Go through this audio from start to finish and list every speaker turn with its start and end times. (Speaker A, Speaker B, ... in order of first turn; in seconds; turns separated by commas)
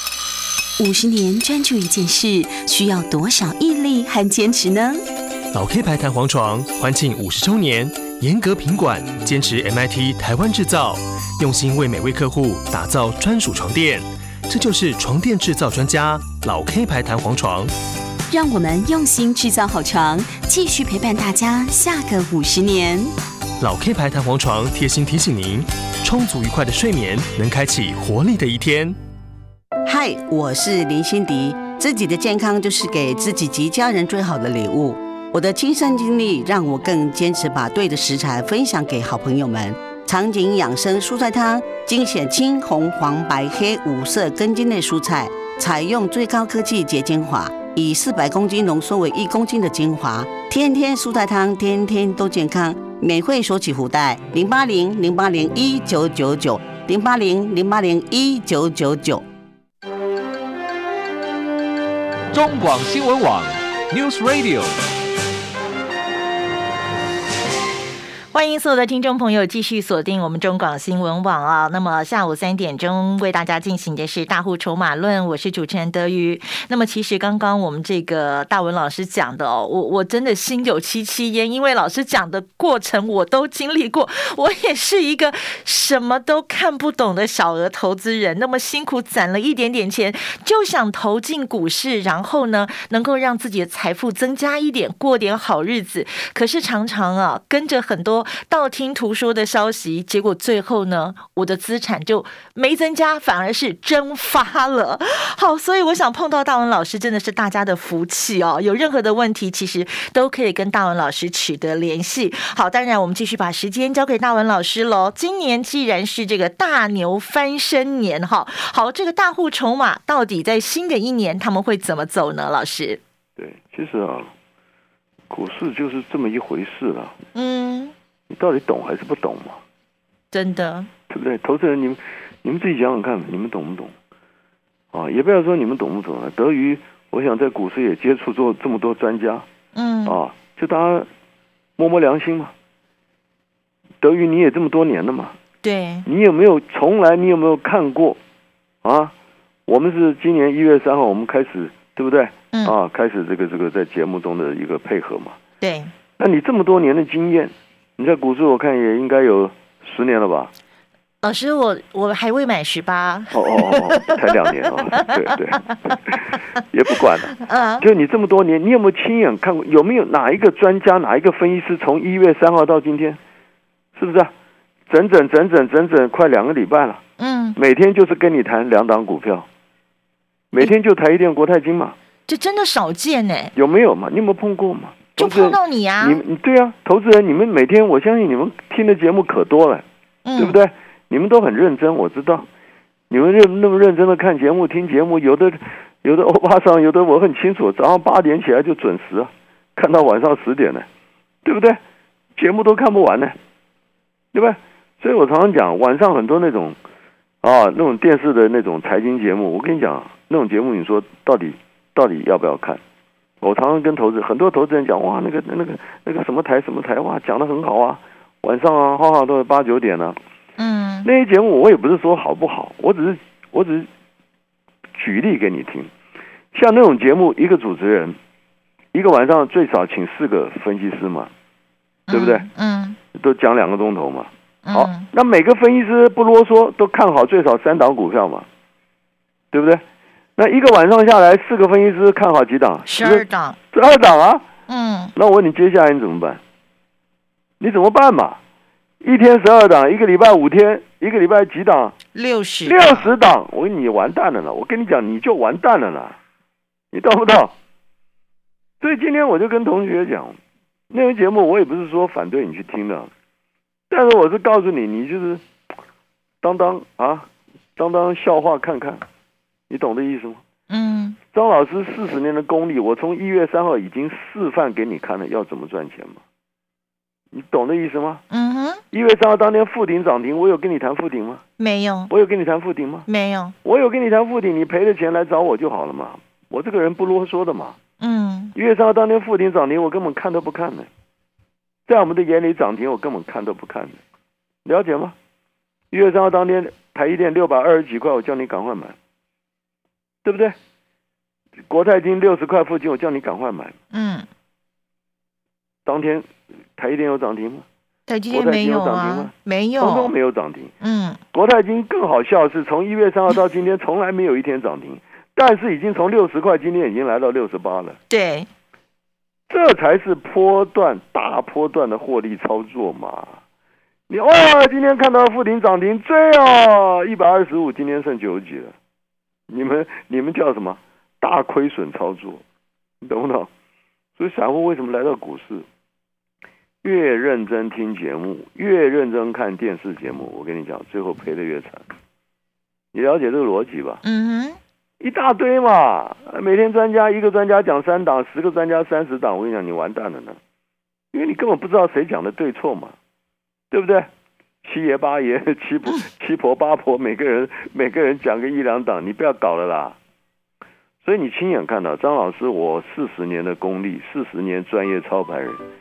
Speaker A: 0.8-5.0, Speaker B: 5.5-17.7, Speaker A: 18.3-23.1, Speaker B: 23.6-28.9, Speaker C: 29.8-59.2, Speaker D: 62.3-64.8, Speaker E: 68.3-123.0, Speaker F: 123.4-124.3, Speaker F: 125.3-127.2, Speaker E: 127.3-127.9, Speaker F: 128.3-129.6, Speaker E: 130.3-130.9, Speaker F: 131.1-133.9, Speaker F: 134.9-139.4, Speaker E: 139.7-140.2, Speaker F: 140.1-141.1, Speaker F: 141.8-142.5, Speaker F: 144.0-145.3, Speaker E: 145.6-146.1, Speaker F: 146.1-148.2, Speaker F: 148.8-149.1, Speaker F: 149.7-155.4, Speaker E: 155.6-155.9, Speaker F: 156.2-160.5, Speaker E: 161.2-164.2, Speaker F: 163.3-173.2, Speaker E: 165.7-166.2, Speaker E: 167.3-167.8, Speaker F: 173.9-174.3, Speaker F: 174.9-177.0, Speaker E: 177.2-177.6, Speaker F: 177.6-179.4, Speaker F: 180.5-181.9, Speaker E: 182.3-183.5, Speaker F: 183.6-189.8, Speaker E: 185.2-186.2, Speaker E: 190.2-190.6, Speaker F: 190.4-192.4, Speaker F: 193.1-200.8, Speaker F: 201.4-201.8, Speaker F: 202.3-203.3, Speaker F: 204.3-206.8, Speaker F: 207.4-212.8, Speaker F: 213.4-220.2, Speaker E: 220.6-221.1, Speaker F: 221.0-223.9, Speaker F: 224.9-225.9, Speaker F: 226.5-228.2, Speaker F: 228.9-231.3, Speaker E: 232.1-233.0, Speaker F: 232.1-232.4, Speaker F: 233.1-238.5, Speaker E: 234.6-235.1, Speaker F: 239.5-239.8, Speaker F: 240.4-244.4, Speaker E: 242.8-243.6, Speaker E: 244.7-245.1, Speaker F: 245.2-246.4, Speaker F: 247.6-248.4, Speaker F: 249.0-251.9, Speaker E: 252.1-253.1, Speaker F: 252.6-256.2, Speaker F: 256.9-257.5, Speaker F: 258.8-260.4, Speaker F: 260.9-263.1, Speaker F: 263.9-265.4, Speaker F: 266.4-269.0, Speaker F: 269.7-270.4, Speaker E: 270.7-271.2, Speaker F: 271.3-276.2, Speaker F: 277.3-278.2, Speaker E: 278.3-278.8, Speaker F: 278.9-281.4, Speaker E: 281.6-282.1, Speaker F: 282.1-283.1, Speaker E: 283.1-283.5, Speaker F: 283.6-287.8, Speaker E: 288.0-288.5, Speaker F: 288.5-290.9, Speaker F: 291.9-294.0, Speaker F: 294.6-295.1, Speaker F: 295.9-298.9, Speaker F: 300.2-300.6, Speaker F: 301.7-303.8, Speaker E: 303.9-304.3, Speaker F: 305.9-306.2, Speaker F: 306.8-307.6, Speaker E: 308.1-310.1, Speaker F: 308.3-310.7, Speaker E: 310.8-311.2, Speaker F: 311.3-318.0, Speaker E: 318.1-318.5, Speaker F: 319.5-323.4, Speaker F: 324.1-328.7, Speaker F: 329.5-332.4, Speaker F: 333.0-333.5, Speaker F: 334.2-335.6, Speaker F: 336.8-341.8, Speaker F: 342.9-344.0, Speaker E: 344.0-344.6, Speaker F: 345.0-350.4, Speaker F: 351.1-352.9, Speaker F: 353.7-354.1, Speaker F: 354.6-360.0, Speaker F: 361.0-365.6